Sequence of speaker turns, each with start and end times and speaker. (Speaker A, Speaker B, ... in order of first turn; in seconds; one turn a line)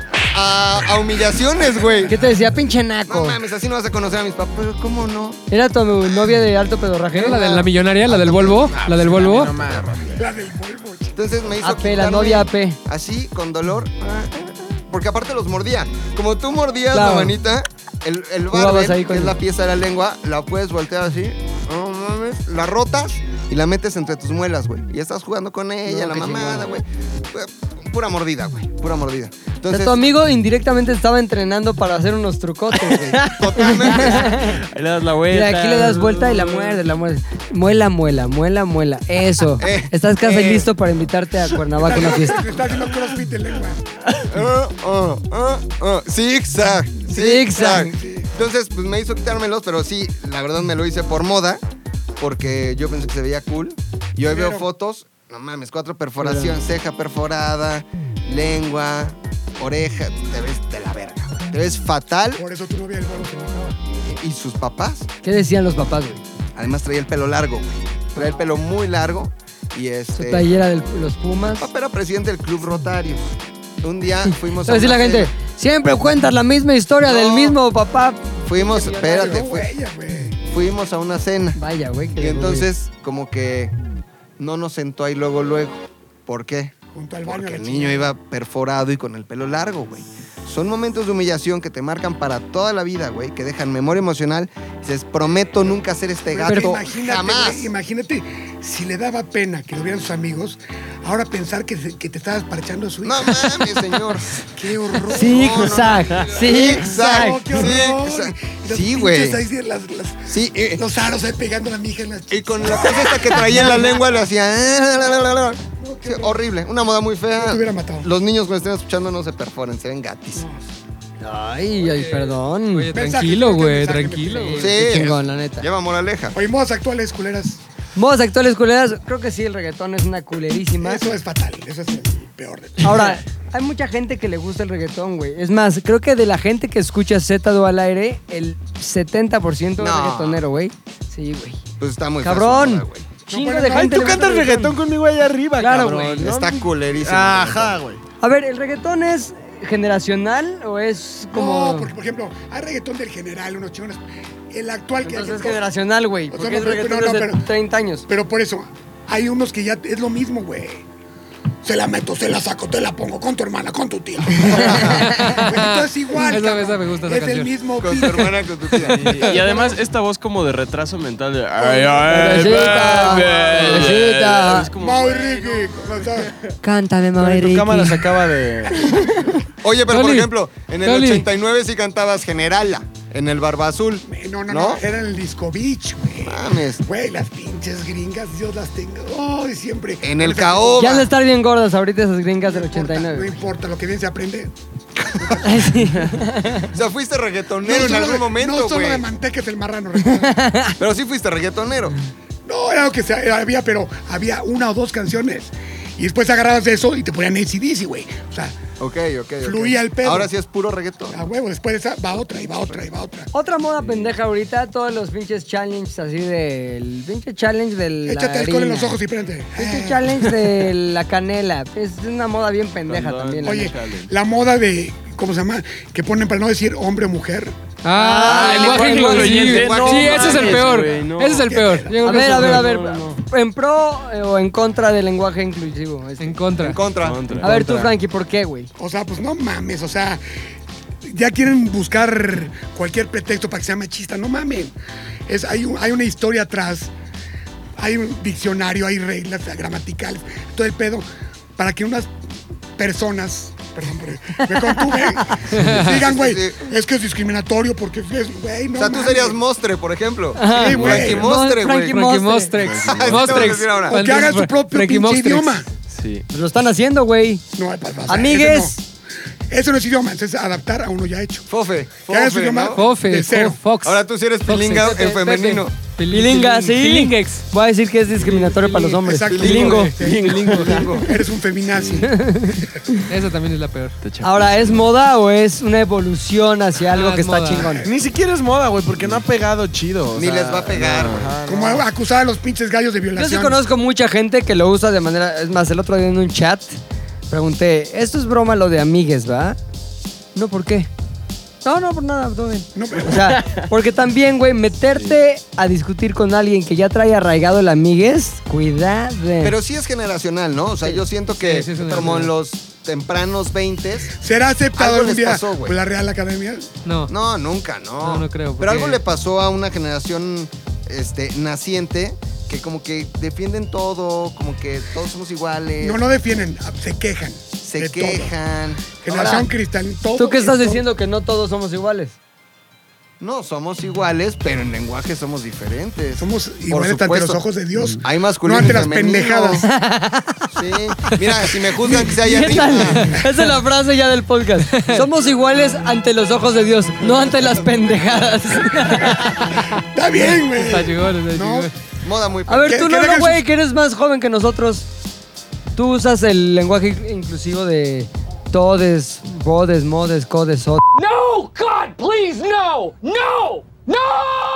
Speaker A: 0.3-2.2
Speaker B: 2.1-3.4
Speaker A: 3.1-5.4
Speaker B: 5.5-7.6
Speaker C: 7.2-9.5
Speaker A: 7.3-10.0
Speaker D: 8.8-10.1
Speaker E: 10.1-11.2
Speaker A: 11.2-30.0
Speaker B: 11.6-12.8
Speaker B: 16.9-17.4
Speaker B: 18.5-19.4
Speaker B: 25.9-26.6
Speaker B: 29.7-34.6
Speaker A: 32.8-34.5
Speaker F: 34.5-36.8
Speaker B: 35.3-42.4
Speaker A: 39.6-40.7
Speaker E: 41.8-43.8
Speaker A: 44.2-51.6
Speaker B: 47.1-47.9
Speaker E: 47.6-48.3
Speaker A: 52.2-62.4
Speaker E: 54.2-54.6
Speaker B: 56.2-56.6
Speaker E: 62.4-63.8
Speaker A: 64.0-65.1
Speaker B: 65.2-66.2
Speaker A: 66.6-70.5
Speaker B: 70.2-71.7
Speaker A: 71.6-75.3
Speaker B: 74.7-79.4
Speaker A: 77.0-77.6
Speaker A: 78.5-79.7
Speaker E: 79.0-80.4
Speaker A: 80.5-81.6
Speaker B: 81.6-82.7
Speaker A: 82.2-83.7
Speaker A: 84.4-86.7
Speaker E: 86.9-88.1
Speaker A: 87.2-97.7
Speaker E: 96.3-103.7
Speaker B: 96.5-96.8
Speaker A: 103.0-104.3
Speaker E: 104.5-113.8
Speaker A: 105.1-109.4
Speaker B: 105.1-107.7
Speaker A: 110.3-110.8
Speaker A: 112.3-120.5
Speaker E: 115.8-116.4
Speaker E: 117.4-118.1
Speaker E: 120.3-120.6
Speaker B: 121.2-122.9
Speaker C: 121.8-124.7
Speaker E: 122.9-124.9
Speaker B: 124.4-125.7
Speaker A: 124.6-126.4
Speaker E: 126.3-127.6
Speaker B: 128.0-131.1
Speaker E: 130.8-133.2
Speaker B: 132.8-141.6
Speaker A: 139.8-140.4
Speaker A: 141.8-143.1
Speaker B: 142.2-144.8
Speaker E: 143.3-144.2
Speaker D: 143.7-148.0
Speaker B: 145.6-146.3
Speaker A: 146.2-147.8
Speaker B: 148.2-151.9
Speaker E: 151.3-155.6
Speaker B: 155.0-158.1
Speaker E: 156.3-157.5
Speaker E: 158.1-160.8
Speaker E: 161.6-168.7
Speaker A: 164.4-165.2
Speaker C: 164.8-167.5
Speaker A: 167.8-169.3
Speaker F: 168.8-175.9
Speaker E: 169.3-169.7
Speaker B: 172.1-174.7
Speaker E: 174.8-176.3
Speaker B: 176.6-178.1
Speaker D: 177.2-179.0
Speaker A: 179.6-184.8
Speaker C: 179.9-180.3
Speaker C: 180.8-181.3
Speaker E: 184.1-191.0
Speaker A: 186.2-186.8
Speaker A: 190.0-191.1
Speaker B: 190.8-193.3
Speaker E: 192.4-194.5
Speaker E: 195.2-195.4
Speaker B: 195.4-196.7
Speaker A: 196.7-199.1
Speaker E: 197.6-200.4
Speaker B: 200.1-200.8
Speaker A: 200.8-202.0
Speaker E: 202.5-208.6
Speaker A: 208.8-211.2
Speaker E: 209.4-210.3
Speaker E: 211.1-213.3
Speaker B: 213.3-219.0
Speaker F: 213.8-214.1
Speaker E: 218.1-220.0
Speaker B: 219.6-223.6
Speaker F: 222.9-224.1
Speaker E: 223.4-227.6
Speaker C: 227.8-232.7
Speaker B: 227.9-229.6
Speaker F: 228.2-231.5
Speaker A: 229.5-230.6
Speaker E: 230.2-230.8
Speaker E: 231.4-232.0
Speaker B: 232.0-236.4
Speaker F: 232.1-233.2
Speaker C: 236.2-236.8
Speaker A: 236.6-237.2
Speaker F: 237.0-237.5
Speaker D: 237.4-237.9
Speaker B: 237.4-238.7
Speaker E: 238.8-240.2
Speaker E: 241.0-244.7
Speaker E: 245.3-246.9
Speaker E: 247.8-251.1
Speaker E: 251.6-252.1
Speaker E: 252.8-259.4
Speaker A: 255.5-256.6
Speaker C: 255.5-256.0
Speaker A: 258.8-262.0
Speaker B: 260.4-262.5
Speaker E: 260.5-261.3
Speaker C: 261.9-265.6
Speaker F: 262.6-263.6
Speaker A: 262.7-264.0
Speaker E: 263.9-265.7
Speaker F: 265.9-266.3
Speaker B: 266.3-267.4
Speaker E: 267.6-268.8
Speaker B: 268.1-268.8
Speaker E: 269.5-271.5
Speaker A: 271.5-272.9
Speaker E: 272.1-273.6
Speaker C: 272.7-277.4
Speaker A: 273.8-275.7
Speaker B: 274.8-275.5
Speaker B: 276.1-279.9
Speaker F: 278.2-278.6
Speaker E: 278.7-282.8
Speaker A: 279.3-281.1
Speaker F: 279.4-281.1
Speaker F: 281.6-282.1
Speaker B: 282.1-282.9
Speaker C: 283.1-284.0
Speaker F: 284.0-284.9
Speaker B: 284.2-287.9
Speaker C: 286.9-287.7
Speaker E: 287.5-287.9
Speaker D: 287.8-291.9
Speaker A: 290.1-291.3
Speaker F: 290.9-291.3
Speaker E: 291.4-293.6
Speaker B: 293.1-296.8
Speaker B: 297.3-299.6
Speaker B: 300.4-300.9
Speaker B: 301.6-309.6
Speaker E: 302.8-303.4
Speaker A: 309.4-314.1
Speaker C: 311.4-312.3
Speaker E: 314.2-316.7
Speaker A: 314.7-315.8
Speaker C: 316.9-317.1
Speaker A: 317.1-326.0
Speaker C: 318.0-319.0
Speaker E: 325.8-328.3
Speaker A: 327.6-328.9
Speaker E: 329.0-330.8
Speaker B: 329.1-329.5
Speaker B: 330.2-332.2
Speaker A: 333.2-337.4
Speaker E: 336.2-339.7
Speaker A: 338.0-339.7
Speaker B: 339.7-340.4
Speaker A: 340.5-343.2
Speaker B: 341.9-349.7
Speaker C: 344.7-345.1
Speaker E: 349.5-351.7
Speaker C: 350.1-351.7
Speaker A: 352.0-352.9
Speaker B: 352.5-354.9
Speaker E: 352.7-353.4
Speaker B: 355.8-360.8
Speaker C: 361.0-364.2